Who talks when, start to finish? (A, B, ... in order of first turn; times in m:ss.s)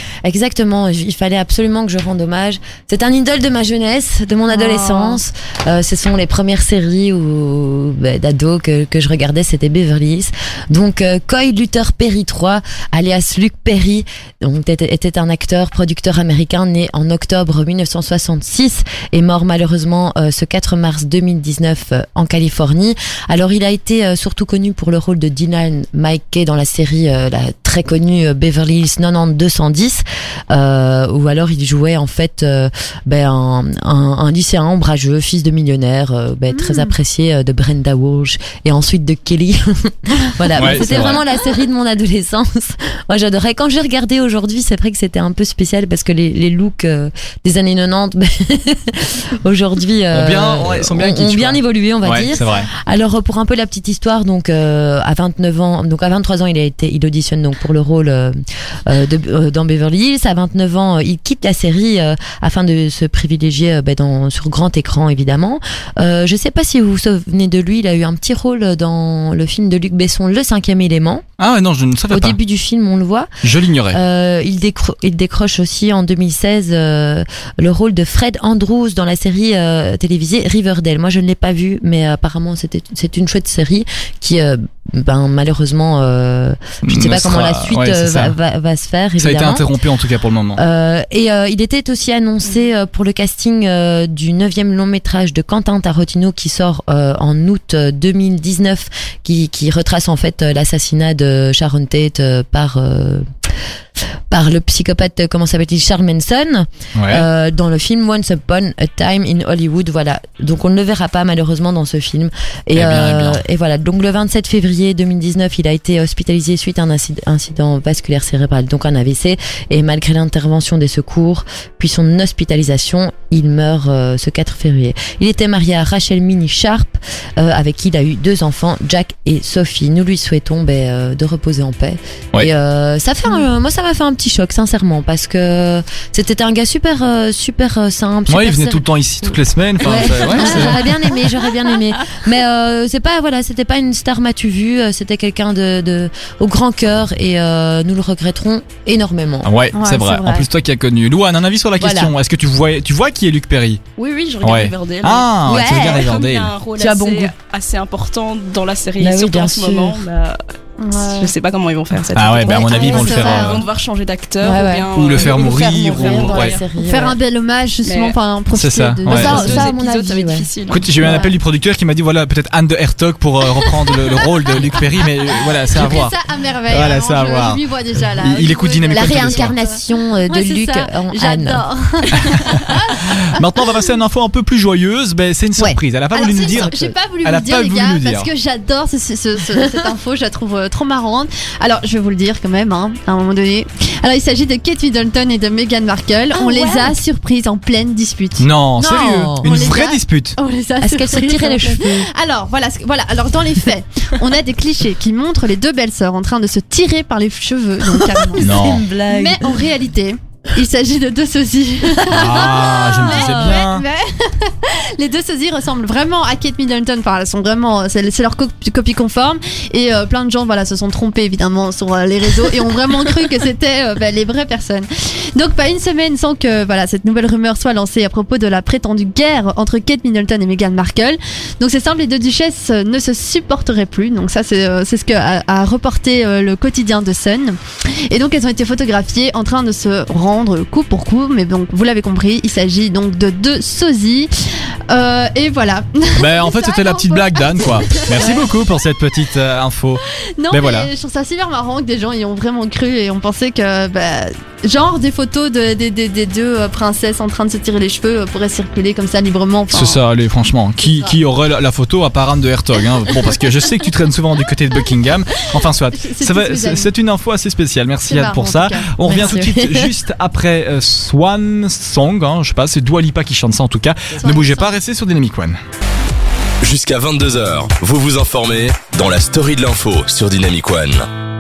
0:00.2-1:11.3 A
0:04.5-0:05.2 B
0:36.5-0:37.0 B
0:40.5-0:41.2 C
0:50.1-0:52.7 C
1:11.4-1:12.4 C
1:12.1-1:13.3 A
1:13.4-1:14.0 C
1:13.9-1:29.7 A
1:26.8-1:28.4 C
1:29.2-1:30.6 C
1:30.6-1:43.3 A
1:44.3-2:29.5 A
1:47.0-1:47.3 C
1:52.8-1:53.4 C
2:18.3-2:20.8 C
2:29.4-2:33.8 C
2:29.7-2:30.5 B
2:31.8-2:32.1 A
2:34.0-2:40.4 D
2:34.4-2:36.5 C
2:35.4-2:36.1 A
2:36.8-2:37.3 A
2:39.0-2:40.0 A
2:40.8-2:41.3 B
2:41.0-2:46.6 D
2:42.1-2:43.6 C
2:42.5-2:43.4 A
2:42.6-2:43.6 B
2:44.4-2:47.2 A
2:44.9-2:46.6 C
2:46.8-2:49.7 B
2:47.8-2:48.2 D
2:48.6-2:49.5 C
2:49.1-2:50.5 A
2:49.1-2:51.2 D
2:50.7-2:56.2 C
2:51.0-2:51.3 B
2:55.7-3:03.1 B
2:56.7-2:57.6 C
2:58.2-2:59.5 C
2:58.9-3:01.7 A
3:03.0-3:08.3 C
3:06.1-3:28.5 B
3:06.5-3:06.9 A
3:16.3-3:17.0 A
3:18.4-3:20.4 C
3:18.8-3:19.5 A
3:20.8-3:22.1 A
3:27.9-3:29.7 A
3:28.4-3:28.8 C
3:29.1-4:08.5 B
3:32.1-3:33.8 C
3:32.3-3:33.6 A
4:06.2-4:10.9 C
4:10.4-4:20.0 B
4:19.7-4:35.6 C
4:20.8-4:21.2 B
4:25.9-4:26.9 B
4:28.1-4:29.4 B
4:29.0-4:30.0 A
4:34.2-4:34.8 B
4:36.6-4:41.1 E